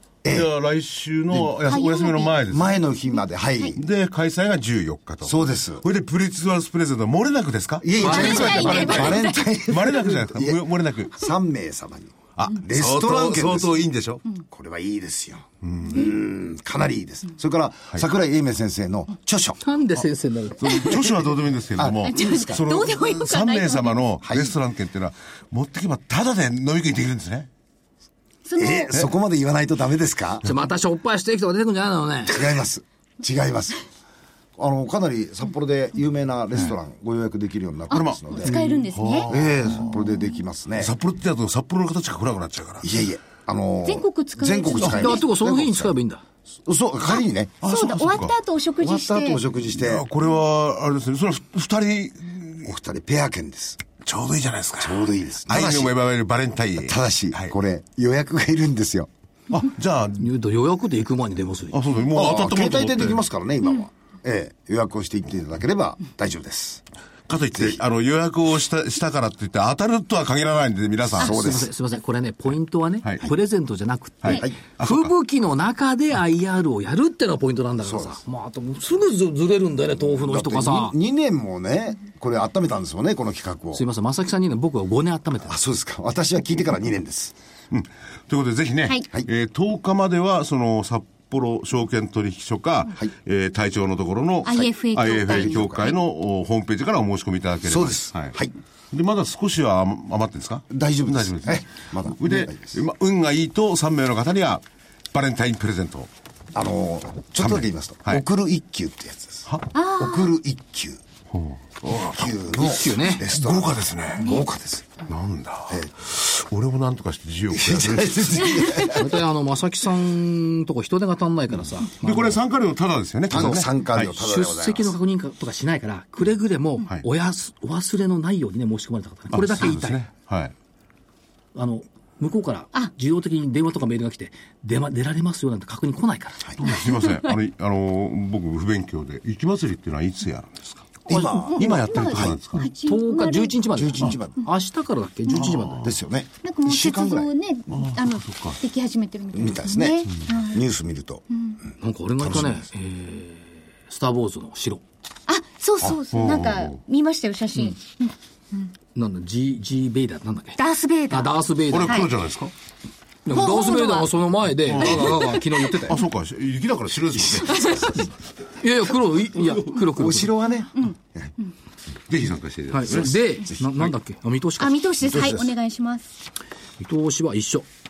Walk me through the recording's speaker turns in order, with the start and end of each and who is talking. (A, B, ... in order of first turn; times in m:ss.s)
0:00.2-0:00.5 A
0:00.2-0:02.8 B
0:01.7-0:02.3 C
0:02.5-0:03.8 A
0:03.8-0:11.3 B
0:05.2-0:05.8 A
0:07.8-0:13.8 A
0:08.0-0:09.6 C
0:12.4-0:14.2 B
0:14.4-0:19.6 A
0:15.6-0:16.0 B
0:19.6-0:20.8 D
0:20.6-0:27.5 B
0:20.7-0:21.0 C
0:21.8-0:22.4 A
0:22.0-0:24.0 C
0:24.2-0:24.5 A
0:28.4-0:29.1 C
0:28.6-0:30.5 A
0:30.4-0:32.4 D
0:32.3-0:33.8 A
0:34.6-0:38.7 A
0:37.9-0:39.3 C
0:37.9-0:40.0 B
0:39.3-0:40.9 A
0:40.8-0:42.9 B
0:42.8-0:45.9 A
0:43.8-0:45.2 C
0:44.8-0:46.2 D
0:46.6-0:47.7 A
0:47.1-0:49.4 C
0:47.6-0:48.3 B
0:48.8-0:50.0 A
0:49.7-0:52.7 B
0:52.6-0:53.8 A
0:54.0-0:57.5 B
0:54.8-0:55.9 A
0:56.8-0:59.1 A
0:59.5-1:00.3 B
1:00.2-1:01.8 D
1:01.7-1:03.2 B
1:02.1-1:06.8 A
1:07.3-1:11.3 B
1:11.1-1:11.7 A
1:11.2-1:21.0 D
1:14.2-1:15.1 B
1:14.3-1:14.6 A
1:17.8-1:18.2 A
1:20.2-1:23.8 A
1:23.7-1:25.6 D
1:25.4-1:27.3 A
1:27.7-1:38.3 B
1:34.4-1:36.0 C
1:35.3-1:35.9 A
1:37.6-1:38.5 A
1:38.9-1:44.6 B
1:40.7-1:42.8 A
1:45.1-1:46.1 B
1:46.5-1:51.0 A
1:47.4-1:48.2 B
1:49.7-1:50.3 C
1:51.3-1:52.3 B
1:51.9-1:55.0 A
1:52.6-1:53.2 D
1:53.2-1:54.3 B
1:54.2-1:54.4 C
1:55.0-1:58.8 B
1:57.5-1:59.2 A
1:58.8-2:02.4 D
2:02.0-2:04.1 B
2:03.3-2:04.9 A
2:04.0-2:10.1 D
2:09.3-2:10.5 B
2:11.5-2:16.8 D
2:16.6-2:22.7 B
2:16.6-2:17.2 C
2:21.1-2:23.6 C
2:21.1-2:22.4 A
2:22.6-2:25.9 D
2:23.7-2:24.5 A
2:25.3-2:25.6 C
2:25.3-2:25.9 B
2:25.8-2:27.3 A
2:26.4-2:30.6 C
2:27.7-2:28.6 B
2:29.3-2:31.2 A
2:31.3-2:31.6 C
2:31.8-2:34.8 D
2:32.2-2:32.6 A
2:35.3-2:38.7 C
2:36.1-2:36.8 B
2:38.9-2:42.1 D
2:40.6-2:42.1 C
2:41.7-2:42.5 B
2:43.2-2:46.0 D
2:43.3-2:44.1 C
2:44.6-2:48.0 B
2:44.9-2:45.2 C
2:47.3-2:48.0 C
2:48.6-2:50.3 D
2:49.8-2:51.3 A
2:50.7-2:51.5 C
2:52.1-2:53.2 B
2:52.7-2:54.7 D
2:54.6-2:56.1 C
2:55.0-2:55.5 A
2:56.8-2:57.6 D